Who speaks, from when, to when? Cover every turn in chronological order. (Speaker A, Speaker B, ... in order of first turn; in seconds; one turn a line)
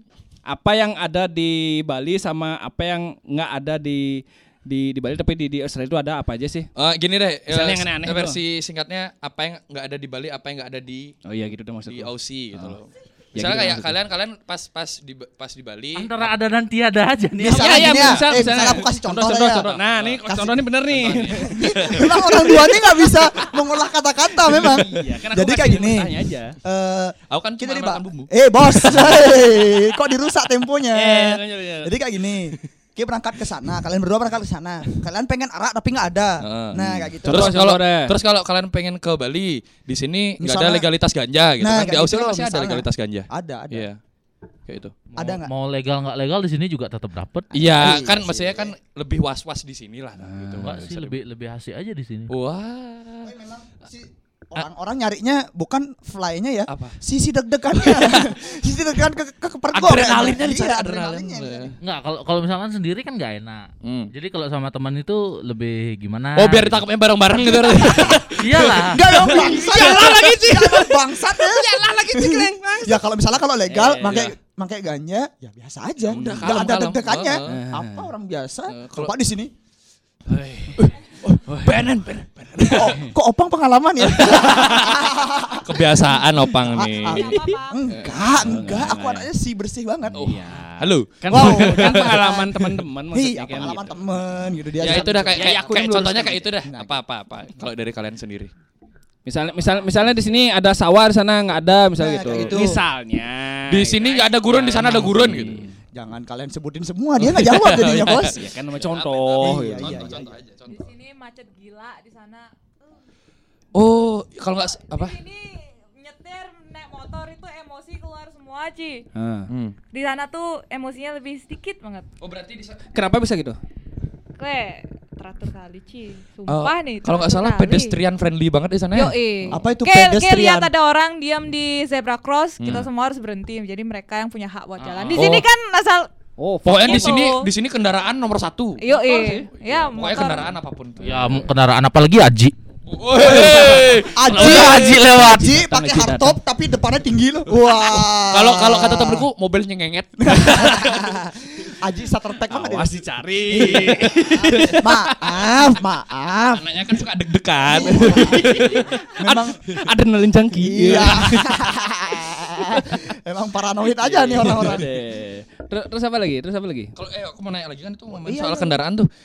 Speaker A: 0.5-6.7
Speaker B: 6.8-11.1
Speaker A: 7.5-8.4
Speaker A: 11.2-12.8
Speaker B: 11.8-16.2
Speaker A: 13.3-14.0
Speaker C: 15.9-18.0
Speaker D: 17.4-19.7
Speaker A: 17.5-22.7
Speaker B: 17.7-18.7
Speaker B: 19.6-22.8
Speaker D: 20.2-20.5
Speaker D: 21.3-37.6
Speaker A: 24.5-26.6
Speaker B: 27.3-29.2
Speaker A: 30.9-31.9
Speaker B: 36.4-44.0
Speaker A: 37.2-38.1
Speaker D: 40.4-40.9
Speaker D: 41.6-43.9
Speaker B: 44.7-45.1
Speaker D: 45.1-45.5
Speaker C: 45.4-47.7
Speaker B: 47.5-51.2
Speaker D: 47.6-48.7
Speaker A: 50.2-50.9
Speaker C: 50.6-52.3
Speaker B: 52.3-53.3
Speaker D: 53.2-61.7
Speaker B: 56.7-57.0
Speaker B: 57.8-58.3
Speaker B: 59.7-61.7
Speaker C: 61.8-66.8
Speaker B: 63.8-64.1
Speaker B: 66.3-70.3
Speaker C: 68.3-69.2
Speaker D: 68.8-79.5
Speaker A: 69.1-73.0
Speaker A: 73.7-74.2
Speaker B: 74.0-74.3
Speaker B: 76.1-77.6
Speaker A: 76.1-76.6
Speaker A: 77.5-78.1
Speaker B: 78.7-79.1
Speaker A: 80.3-80.8
Speaker B: 80.3-83.0
Speaker A: 81.4-82.0
Speaker D: 82.6-90.3
Speaker A: 82.7-83.1
Speaker B: 84.0-85.0
Speaker B: 85.6-87.4
Speaker E: 87.0-87.8
Speaker A: 88.3-89.3
Speaker B: 90.1-92.3
Speaker A: 90.1-94.0
Speaker D: 91.3-97.0
Speaker A: 94.8-96.0
Speaker B: 94.8-98.5
Speaker A: 99.2-105.7
Speaker D: 102.0-102.8
Speaker B: 103.7-105.7
Speaker D: 105.9-108.4
Speaker B: 107.3-110.9
Speaker A: 108.2-110.1
Speaker D: 109.4-110.3
Speaker E: 110.7-112.5
Speaker B: 113.7-115.2
Speaker E: 114.9-119.0
Speaker A: 119.1-119.5
Speaker B: 119.5-119.8
Speaker E: 119.9-122.1
Speaker B: 122.2-122.8
Speaker A: 122.9-123.6
Speaker E: 124.4-128.0
Speaker B: 126.5-129.5
Speaker E: 128.9-136.1
Speaker D: 129.5-130.7
Speaker B: 132.6-132.9
Speaker B: 134.8-135.4
Speaker C: 135.1-135.4
Speaker A: 136.4-137.2
Speaker B: 136.6-138.8
Speaker E: 136.8-137.5
Speaker E: 138.8-140.5
Speaker A: 138.9-139.9
Speaker B: 139.9-141.1
Speaker A: 141.0-141.5
Speaker C: 141.0-142.5
Speaker B: 142.9-144.9
Speaker D: 143.2-149.2
Speaker A: 143.2-144.1
Speaker C: 144.2-145.6
Speaker A: 144.8-146.4
Speaker B: 147.8-151.1
Speaker D: 150.2-156.7
Speaker A: 152.5-154.9
Speaker B: 156.5-159.0
Speaker D: 157.7-158.6
Speaker A: 157.8-161.5
Speaker D: 159.2-159.6
Speaker D: 160.6-164.9
Speaker A: 162.7-163.0
Speaker A: 164.0-166.9
Speaker B: 166.9-169.1
Speaker D: 168.1-168.8